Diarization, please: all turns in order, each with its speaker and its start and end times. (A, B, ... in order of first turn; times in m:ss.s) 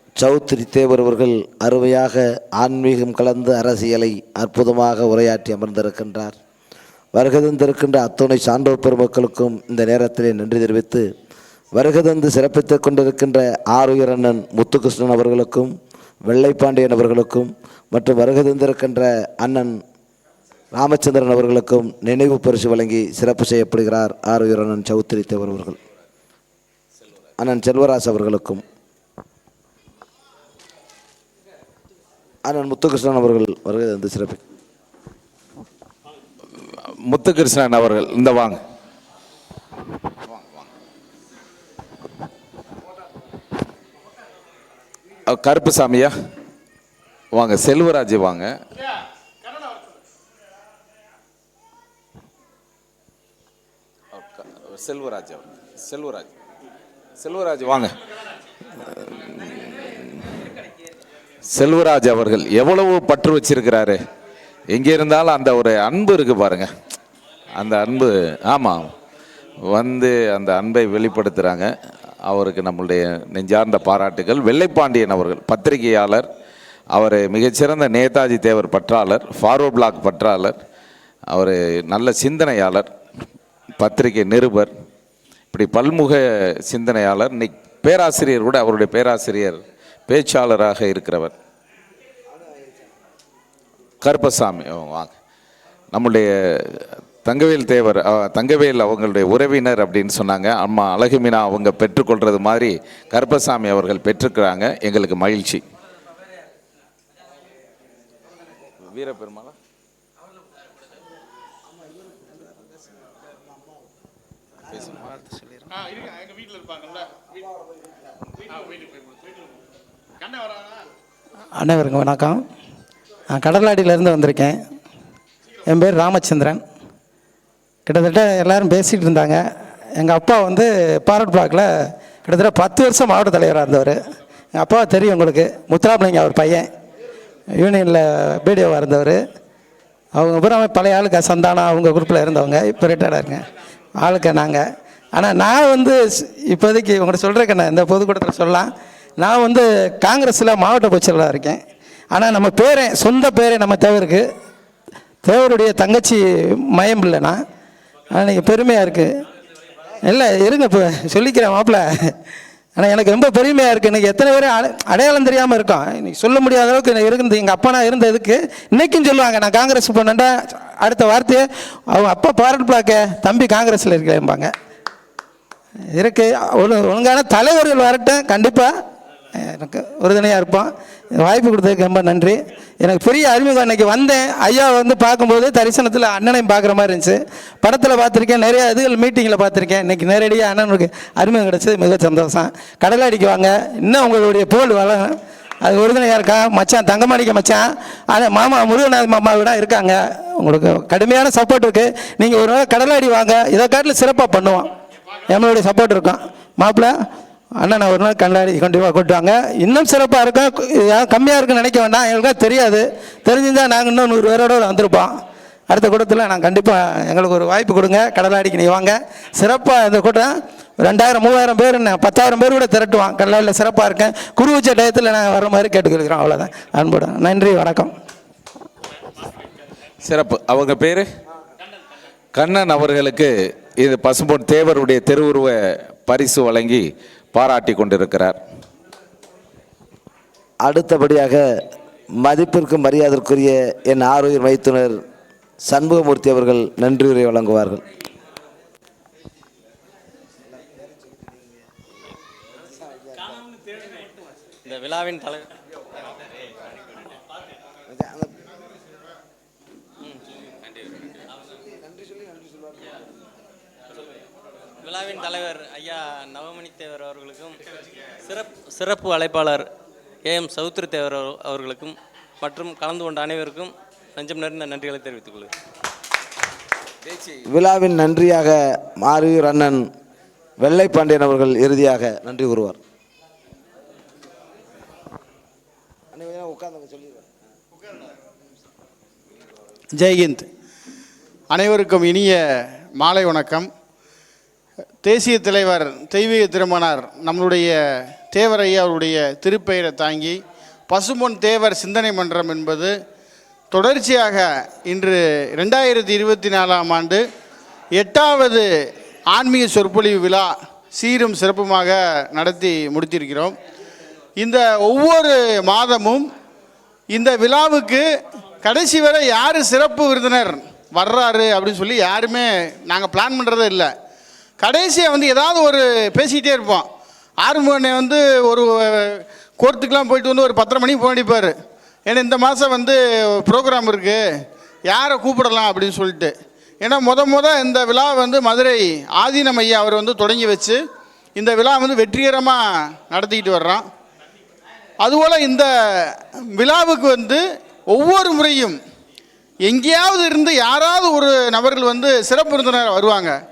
0:00.2-0:06.4 A
0:07.1-0:11.1 A
0:11.8-0:15.7 A
0:16.2-0:19.8 A
0:20.7-0:25.8 A
0:27.4-0:28.6 A
0:32.4-0:34.4 A
0:36.8-0:38.6 B
0:40.3-0:40.7 B
0:45.3-0:46.1 B
0:47.3-0:48.6 B
0:54.1-0:56.3 B
0:57.2-0:58.0 B
0:58.9-1:00.4 B
1:01.5-1:04.0 B
1:04.7-1:06.7 B
1:07.5-1:09.0 B
1:09.6-1:11.7 B
1:12.2-1:16.3 B
1:16.9-1:20.6 B
1:21.3-1:22.9 B
1:23.8-1:24.7 B
1:25.5-1:31.4 B
1:34.0-1:35.1 B
1:35.9-1:45.6 B
1:48.9-1:49.6 B
1:54.7-1:55.0 B
1:55.0-1:55.7 C
1:56.3-1:56.7 D
2:01.6-2:02.4 C
2:03.3-2:04.6 C
2:05.7-2:06.6 C
2:07.9-2:09.4 C
2:09.9-2:11.7 C
2:12.2-2:14.0 C
2:14.5-2:16.7 C
2:17.6-2:19.2 C
2:20.1-2:23.4 C
2:24.0-2:31.6 C
2:32.1-2:34.2 C
2:35.2-2:37.4 C
2:38.1-2:39.1 C
2:40.0-2:42.1 C
2:42.8-2:54.5 C
2:55.9-2:58.7 C
2:59.3-3:24.7 C
3:25.3-3:26.9 C
3:27.6-3:35.1 C
3:35.7-3:47.9 C
3:50.0-3:51.0 B
3:52.3-3:58.4 B
4:00.6-4:01.4 A
4:02.2-4:05.0 A
4:05.7-4:07.8 A
4:12.9-4:13.3 A
4:13.7-4:14.1 E
4:14.6-4:15.5 E
4:17.9-4:18.4 A
4:20.1-4:20.8 E
4:21.6-4:22.8 A
4:24.8-4:27.6 E
4:28.2-4:29.7 E
4:30.2-4:35.5 E
4:37.1-4:37.4 B
4:37.4-4:39.9 A
4:40.6-4:42.8 A
4:46.1-4:47.2 A
4:49.9-4:50.5 D
4:51.5-4:52.4 D
4:53.0-4:53.7 D
4:55.0-4:57.7 D
4:58.3-5:00.4 D
5:00.9-5:02.9 D
5:03.7-5:07.2 D
5:08.0-5:08.7 D
5:09.3-5:13.5 D
5:14.4-5:16.2 D
5:17.1-5:18.1 D
5:18.6-5:23.9 D
5:24.6-5:26.9 D
5:27.4-5:31.5 D
5:32.1-5:34.2 D
5:34.9-5:40.8 D
5:41.4-5:43.8 D
5:45.0-5:48.8 D
5:49.7-5:53.4 D